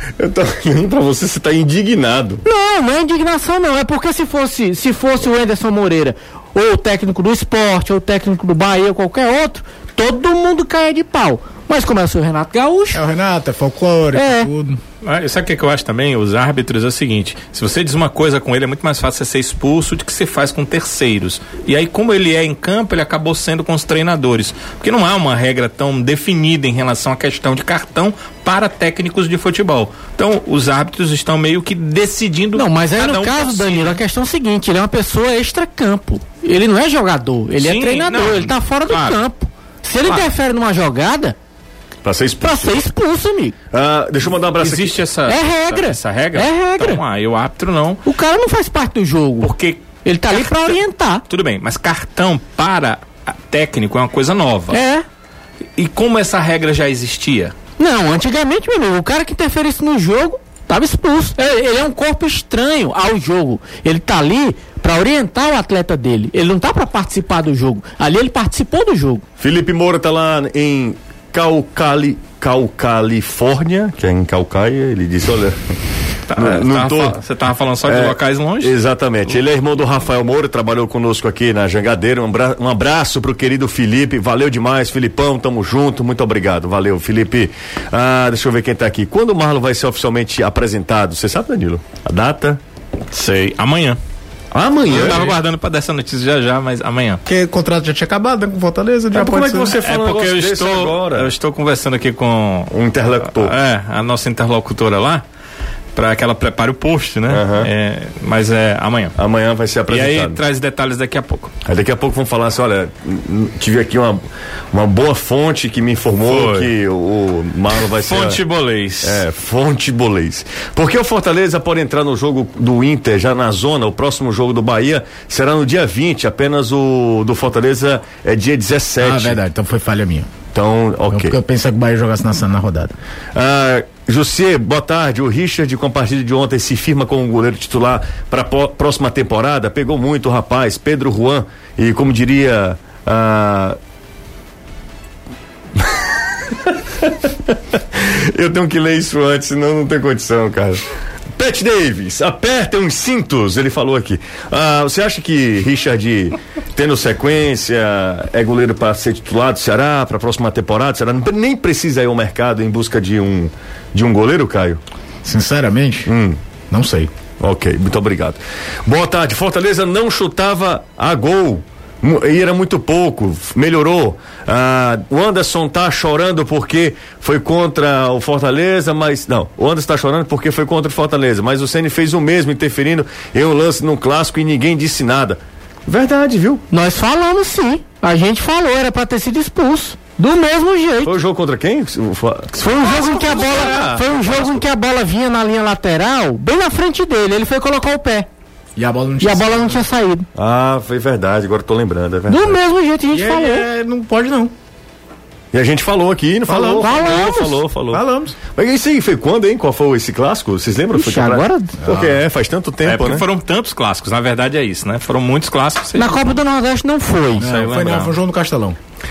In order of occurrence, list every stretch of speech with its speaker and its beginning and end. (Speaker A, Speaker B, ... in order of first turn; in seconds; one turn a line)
Speaker A: 0.2-2.4
Speaker B: 2.4-13.0
Speaker C: 12.9-14.8
Speaker B: 14.2-14.5
Speaker D: 15.0-34.0
Speaker B: 32.5-41.4
Speaker D: 37.6-39.2
Speaker A: 42.0-42.8
Speaker B: 42.4-43.5
Speaker A: 43.7-45.0
Speaker D: 44.6-48.0
Speaker B: 45.3-47.0
Speaker B: 48.0-49.5
Speaker D: 49.4-54.8
Speaker B: 50.0-51.2
Speaker B: 54.7-55.0
Speaker D: 55.8-57.5
Speaker B: 57.8-69.2
Speaker A: 69.4-75.7
Speaker D: 76.3-78.8
Speaker A: 76.4-77.2
Speaker A: 77.8-92.6
Speaker D: 93.1-94.0
Speaker A: 94.5-95.4
Speaker D: 94.9-97.2
Speaker C: 97.3-99.8
Speaker A: 99.1-101.3
Speaker D: 99.7-102.7
Speaker A: 102.7-103.5
Speaker D: 103.2-105.2
Speaker D: 106.0-109.2
Speaker A: 107.3-107.7
Speaker A: 109.2-110.4
Speaker D: 109.9-111.5
Speaker A: 111.7-118.4
Speaker D: 116.2-116.7
Speaker D: 117.8-119.2
Speaker A: 119.0-129.4
Speaker C: 129.0-130.3
Speaker A: 130.5-131.4
Speaker C: 131.1-132.9
Speaker A: 133.3-143.8
Speaker A: 145.8-150.8
Speaker A: 151.4-164.8
Speaker C: 165.2-166.1
Speaker A: 166.1-166.4
Speaker C: 166.7-167.1
Speaker A: 167.4-186.6
Speaker B: 186.7-191.1
Speaker A: 191.0-194.6
Speaker B: 192.6-198.3
Speaker D: 192.9-194.0
Speaker C: 198.8-199.9
Speaker B: 199.2-200.3
Speaker A: 200.3-202.6
Speaker B: 202.3-203.7
Speaker C: 203.1-204.5
Speaker A: 205.5-208.0
Speaker C: 206.5-206.9
Speaker B: 206.8-207.6
Speaker C: 207.9-208.4
Speaker A: 208.5-213.2
Speaker B: 210.9-211.8
Speaker C: 211.8-212.2
Speaker D: 212.8-216.3
Speaker B: 216.0-217.5
Speaker C: 217.4-218.8
Speaker D: 217.4-218.2